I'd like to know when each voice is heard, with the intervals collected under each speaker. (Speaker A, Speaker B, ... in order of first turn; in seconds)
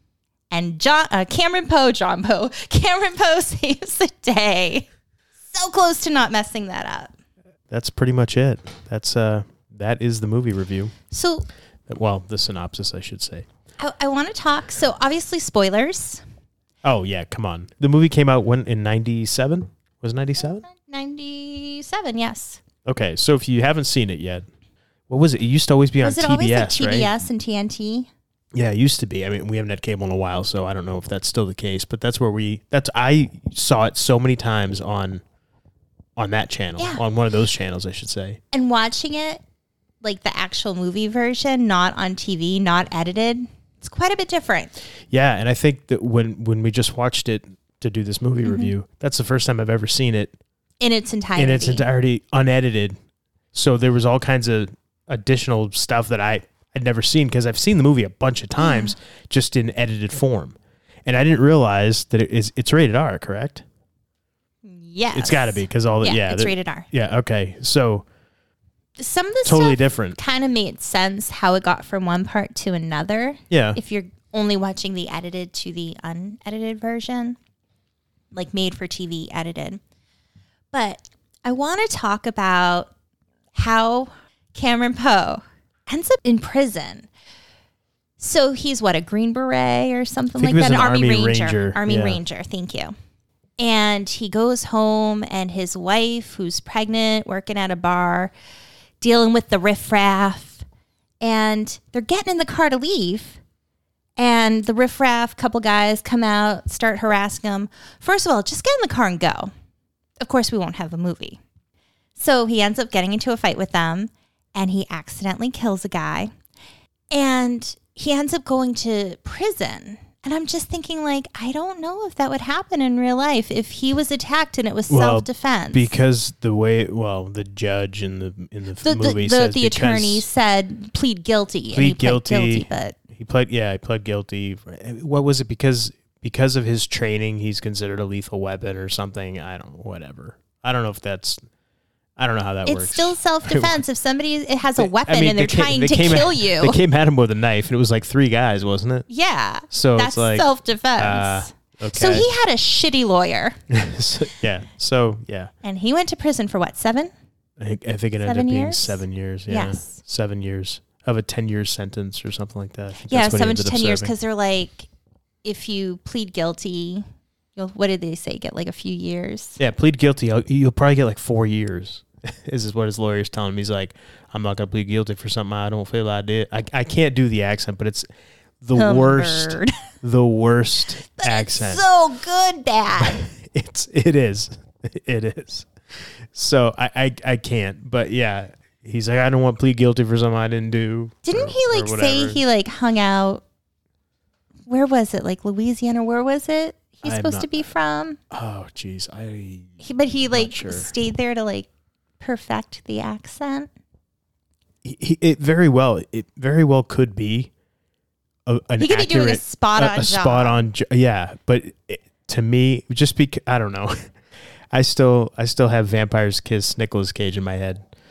Speaker A: 0.5-4.9, 5.4-7.1, 11.1-11.5, 13.8-16.2, 20.4-22.6, 26.0-28.1, 36.8-37.0, 38.5-39.4, 40.0-44.8, 48.5-48.7, 50.8-51.8, 58.6-58.9, 64.6-66.9, 69.0-77.4, 78.3-79.8, 80.7-82.9, 83.5-87.1, 88.2-92.9, 93.6-98.3, 99.0-100.6, 101.2-103.4, 104.2-109.5, 110.2-111.4, 112.2-116.3, 117.1-125.9, 128.8-133.0, 142.7-146.8, 149.1-153.6, 155.6-157.1, 158.2-160.0, 163.1-164.9, 165.4-169.6, 178.7-179.7, 181.0-183.2, 191.2-193.4, 194.7-198.2, 199.8-201.7, 202.2-203.7, 208.8-210.6
Speaker B: 7.7-10.9, 11.9-13.4, 16.8-20.6, 22.9-24.5, 25.1-27.1, 28.5-35.2, 36.2-38.4, 45.1-50.4, 51.4-53.0, 53.5-63.6, 65.1-68.0, 69.4-70.2, 73.5-73.8, 90.4-92.2, 124.9-130.2, 131.7-141.4, 142.2-143.8, 144.8-149.1, 149.7-152.3, 153.7-155.5, 157.6-164.1, 169.6-178.1, 178.6-181.8, 183.0-192.4, 197.0-197.7, 198.3-200.9, 204.8-207.5, 208.4-213.9, 214.7-217.8